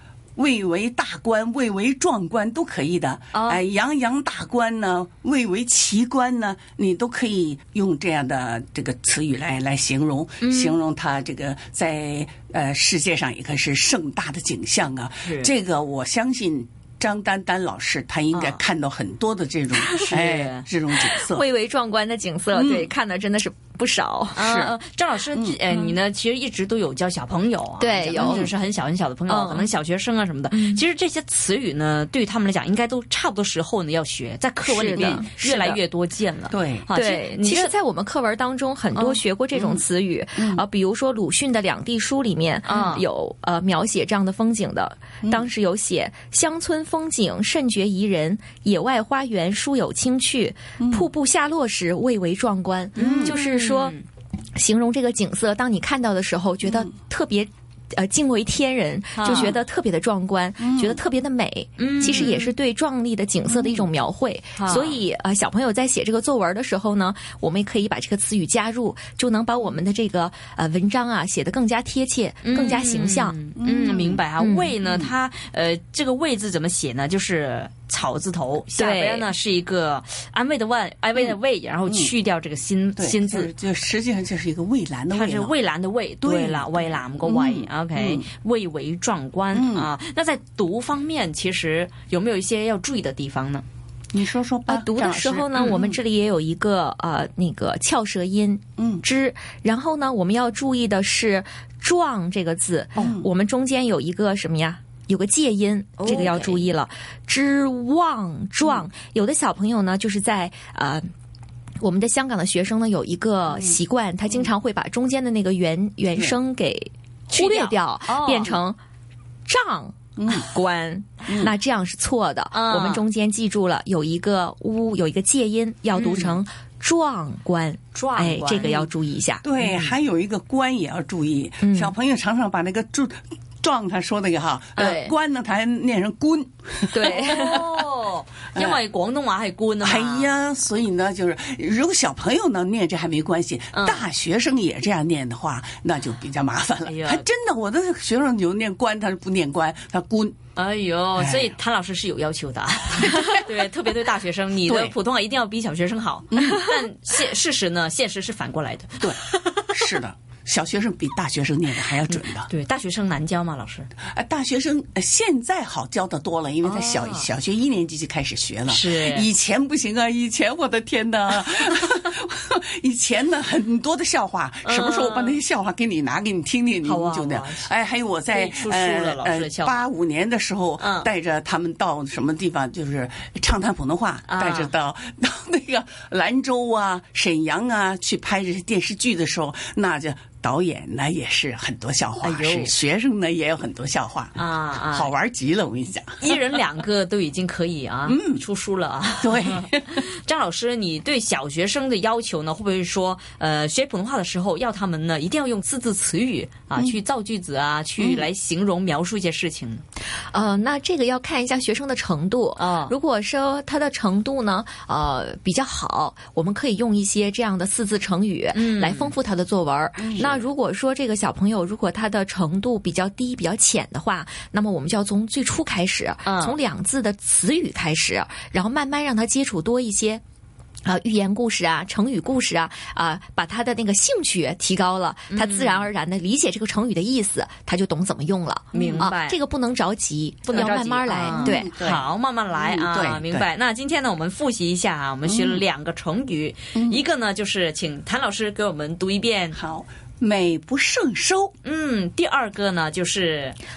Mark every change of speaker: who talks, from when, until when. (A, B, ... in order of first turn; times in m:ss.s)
0:00.4-0:21.4 A
0:03.3-0:03.6 B
0:10.4-0:10.7 B
0:15.2-0:15.5 B
0:18.3-0:18.6 B
0:20.0-0:20.7 B
0:21.1-0:24.5 C
0:22.5-0:22.9 A
0:24.3-0:37.7 B
0:24.4-0:24.7 A
0:25.3-0:25.6 A
0:27.8-0:28.5 C
0:28.2-0:28.5 A
0:29.3-0:29.7 C
0:30.5-0:30.8 C
0:34.6-0:35.8 C
0:35.0-0:35.2 A
0:36.5-0:36.9 A
0:36.9-0:53.9 C
0:38.9-0:39.2 B
0:40.4-0:40.6 A
0:42.6-0:43.0 B
0:50.8-0:51.1 A
0:53.0-0:54.0 B
0:53.0-0:53.4 A
0:54.6-1:13.4 C
0:59.2-0:59.6 B
1:00.6-1:01.0 A
1:01.8-1:02.5 B
1:03.5-1:03.8 A
1:04.6-1:05.0 B
1:12.4-1:23.5 B
1:13.6-1:14.2 A
1:14.4-1:14.8 C
1:14.8-1:15.1 A
1:18.8-1:19.3 C
1:21.9-1:22.1 A
1:23.0-1:25.5 A
1:25.1-1:33.6 B
1:26.2-1:28.2 A
1:29.5-1:29.9 A
1:34.1-1:36.0 A
1:34.7-1:51.1 C
1:38.8-1:39.0 A
1:43.0-1:43.3 A
1:46.0-1:46.7 B
1:51.8-1:58.8 C
1:53.5-1:53.8 A
1:57.3-1:58.6 B
1:59.5-2:09.4 C
2:00.2-2:00.5 A
2:01.3-2:01.5 A
2:02.5-2:03.0 B
2:05.9-2:06.4 B
2:07.9-2:08.9 B
2:09.4-2:17.7 A
2:09.6-2:09.9 B
2:11.6-2:12.0 C
2:14.8-2:15.1 C
2:16.9-2:17.7 C
2:17.0-2:20.3 B
2:18.5-2:18.8 A
2:19.8-2:30.4 A
2:23.7-2:24.0 B
2:26.8-2:27.2 B
2:30.6-2:39.8 B
2:31.2-2:31.5 A
2:33.1-2:33.4 A
2:34.6-2:34.9 A
2:36.3-2:36.8 A
2:39.7-2:42.5 A
2:42.1-2:43.9 B
2:44.1-3:16.4 A
2:46.6-2:47.3 B
2:48.7-2:49.3 B
2:54.6-2:55.4 B
2:56.8-2:57.7 B
2:58.3-2:59.8 B
3:00.8-3:01.1 B
3:04.3-3:04.7 B
3:12.2-3:12.7 B
3:14.4-3:15.1 B
3:16.2-3:29.8 B
3:18.1-3:18.4 A
3:19.2-3:20.0 A
3:28.0-3:28.3 A
3:30.3-3:50.2 C
3:32.6-3:32.9 B
3:38.5-3:39.1 B
3:40.0-3:40.4 A
3:46.2-3:46.6 B
3:50.8-4:01.9 C
3:55.3-3:55.9 B
3:58.7-3:59.4 B
3:58.7-3:59.1 A
4:00.4-4:09.6 B
4:01.3-4:03.5 A
4:05.2-4:05.6 A
4:06.7-4:07.0 A
4:09.5-4:11.5 A
4:11.6-4:13.6 B